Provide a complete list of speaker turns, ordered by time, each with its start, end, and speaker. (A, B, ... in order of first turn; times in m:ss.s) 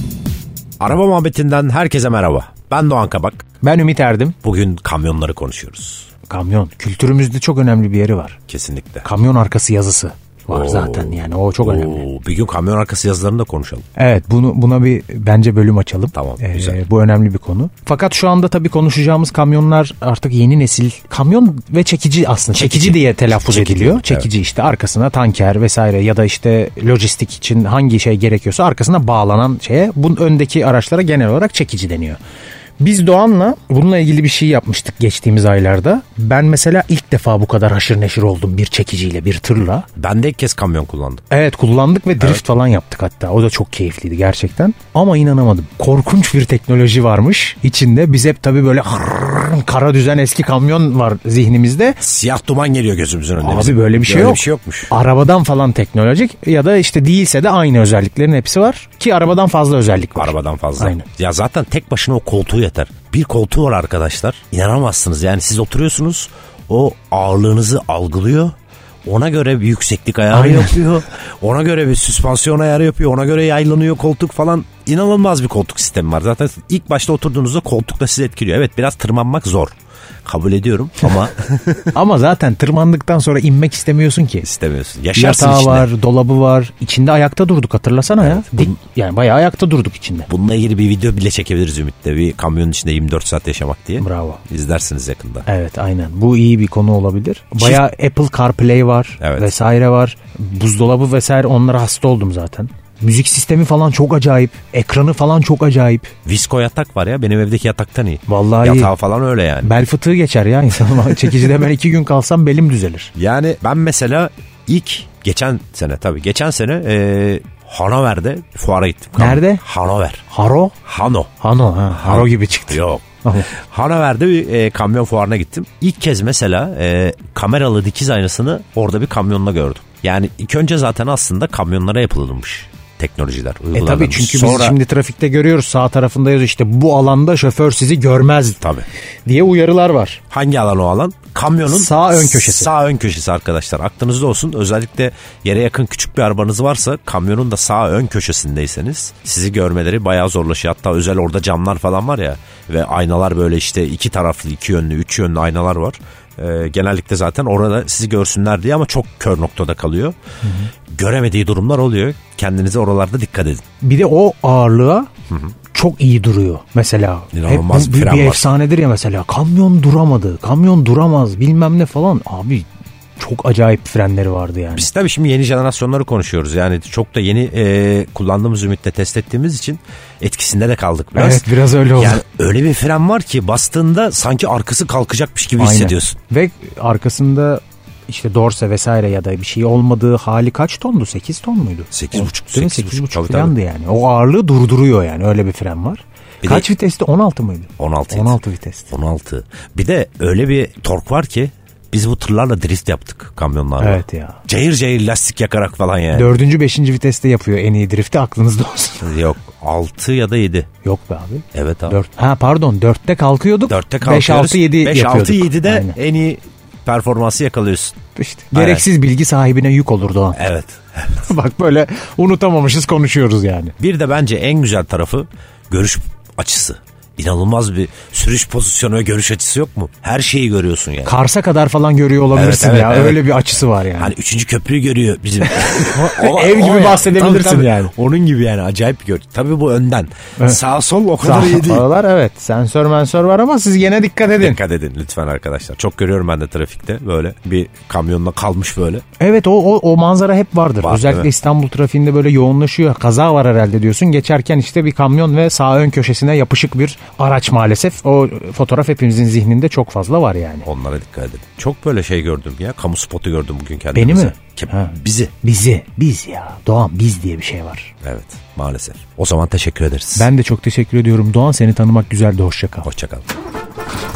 0:00.8-0:03.4 A
0:03.6-0:04.4 B
0:04.4-0:06.1 A
0:06.3-0:08.4 B
0:08.5-0:09.1 A
0:09.0-0:12.0 B
0:10.5-0:13.8 A
0:14.0-0:32.2 B
0:16.1-0:16.8 A
0:22.5-0:24.3 A
0:32.8-0:39.8 B
0:40.0-0:41.2 A
0:41.3-0:52.0 B
0:42.2-0:42.4 A
0:52.0-0:54.9 A
0:53.4-1:01.0 B
1:00.1-1:08.5 A
1:09.0-1:19.7 A
1:10.3-1:10.8 B
1:20.2-1:21.9 A
1:21.9-1:24.5 B
1:24.4-1:25.9 A
1:25.1-1:30.3 B
1:28.2-1:28.7 A
1:30.3-1:35.4 A
1:34.0-1:34.4 B
1:35.4-1:46.1 B
1:37.6-1:37.8 A
1:39.2-1:39.5 A
1:46.2-1:49.7 A
1:48.3-1:48.9 B
1:49.6-1:53.1 B
1:53.1-2:00.2 A
1:59.2-1:59.6 B
2:00.3-2:00.7 B
2:00.8-2:01.3 A
2:01.4-2:03.5 B
2:01.9-2:14.8 A
2:13.7-2:18.6 B
2:18.6-2:18.9 A
2:19.2-2:20.2 B
2:20.3-2:40.2 A
2:21.7-2:22.7 B
2:40.4-2:40.7 B
2:40.9-2:43.6 A
2:43.8-2:45.1 B
2:45.7-2:52.7 B
2:47.3-2:48.5 A
2:53.2-2:54.9 B
2:54.7-3:06.2 A
3:01.1-3:02.2 B
3:05.6-3:18.9 B
3:11.9-3:13.5 A
3:16.4-3:16.7 A
3:17.8-3:18.4 A
3:18.9-3:26.3 A
3:23.8-3:24.4 B
3:26.1-3:29.2 B
3:29.0-3:30.7 A
3:30.8-3:36.0 B
3:31.5-3:32.0 A
3:33.7-3:37.9 A
3:38.2-3:40.4 B
3:38.5-3:38.8 A
3:40.3-3:41.3 A
3:41.2-3:43.7 B
3:43.8-3:51.1 A
3:51.0-3:54.1 B
3:52.3-3:53.2 A
3:54.0-4:01.8 A
3:55.4-3:57.9 B
4:01.2-4:04.6 B
4:04.4-4:09.0 A
4:09.2-4:20.7 B
4:10.8-4:11.3 A
4:20.6-4:25.3 A
4:23.9-4:27.9 B
4:28.0-4:30.3 A
4:30.2-4:32.9 B
4:32.8-4:33.3 A